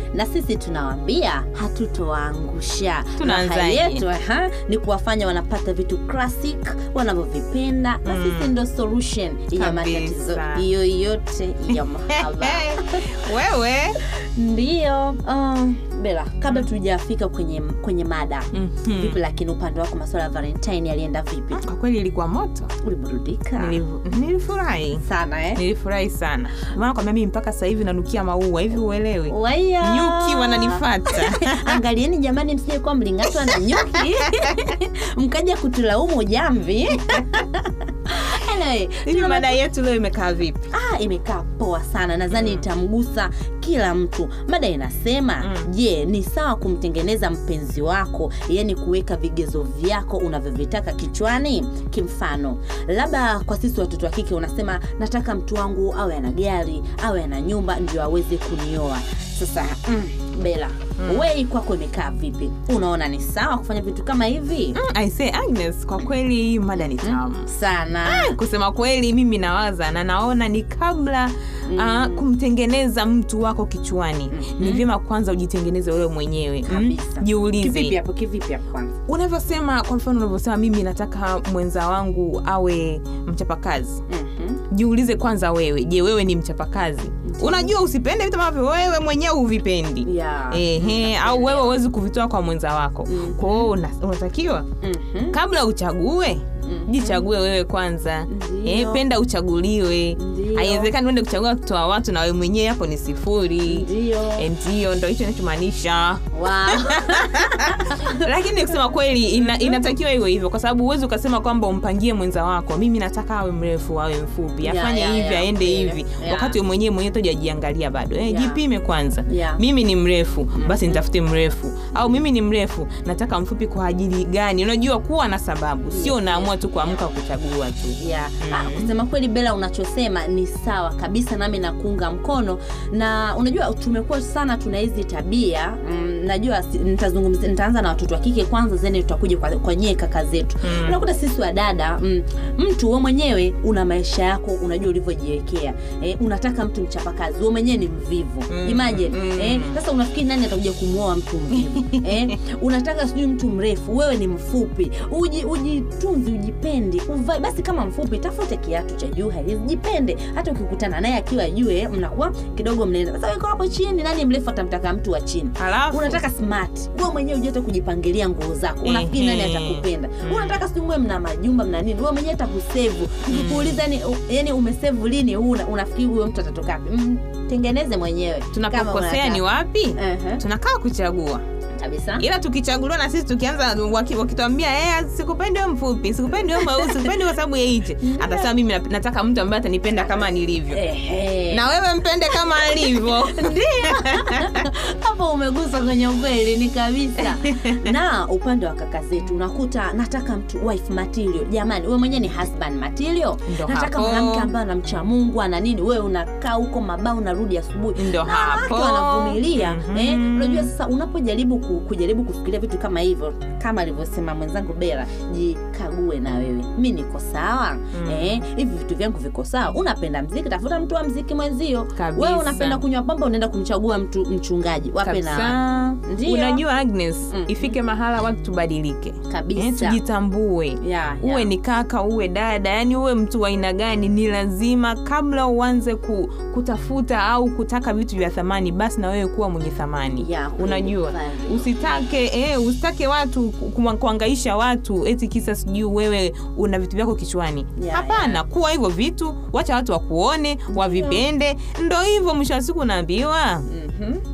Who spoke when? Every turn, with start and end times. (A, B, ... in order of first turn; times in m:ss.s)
0:00.1-0:13.1 A
0:03.2-0:04.0 B
0:08.1-0:08.6 B
0:09.5-0:10.6 B
0:12.1-0:14.0 B
0:14.1-0:21.6 A
0:18.5-0:19.2 B
0:21.6-0:22.7 B
0:22.8-0:23.8 A
0:23.6-0:25.0 B
0:25.0-0:25.6 A
0:25.6-0:31.8 B
0:29.3-0:39.6 A
0:39.0-0:40.6 B
0:40.7-1:04.8 A
0:42.3-0:42.6 B
1:01.0-1:01.3 B
1:04.8-1:07.5 B
1:06.8-1:08.3 A
1:08.0-1:18.0 B
1:11.7-1:12.2 A
1:14.3-1:14.8 A
1:16.6-1:18.9 A
1:19.1-1:24.0 B
1:24.1-1:24.6 A
1:24.7-1:34.7 B
1:27.3-1:27.7 A
1:30.0-1:31.7 A
1:33.1-1:33.7 A
1:34.8-1:35.4 A
1:35.3-2:08.9 B
1:36.6-1:37.2 A
1:38.3-1:39.0 A
1:40.2-1:40.9 A
1:43.7-1:44.5 A
1:46.3-1:48.2 A
1:54.6-1:56.6 A
1:58.2-1:58.6 A
1:59.3-1:59.6 A
2:00.6-2:01.0 A
2:05.9-2:06.9 A
2:08.0-2:59.4 A
2:20.6-2:21.0 B
2:28.5-2:29.8 B
2:31.7-2:32.0 B
2:45.6-2:46.2 B
2:48.8-2:50.6 B
2:53.3-2:53.8 B
2:58.5-3:01.4 B
2:59.9-3:00.4 A
3:01.8-3:02.2 A
3:02.2-3:10.8 B
3:06.5-3:07.0 A
3:08.0-3:08.5 A
3:10.0-3:11.6 A
3:11.5-3:14.7 B
3:12.4-3:46.6 A
3:17.3-3:17.9 B
3:23.5-3:24.5 B
3:28.0-3:30.7 B
3:37.9-3:38.4 B
3:42.0-3:42.8 B
3:45.0-4:13.7 B
3:47.3-3:47.8 A
3:49.3-3:50.0 A
3:50.8-3:51.5 A
4:00.2-4:01.6 A
4:07.8-4:08.4 A
4:10.7-4:11.2 A
4:13.7-4:14.2 A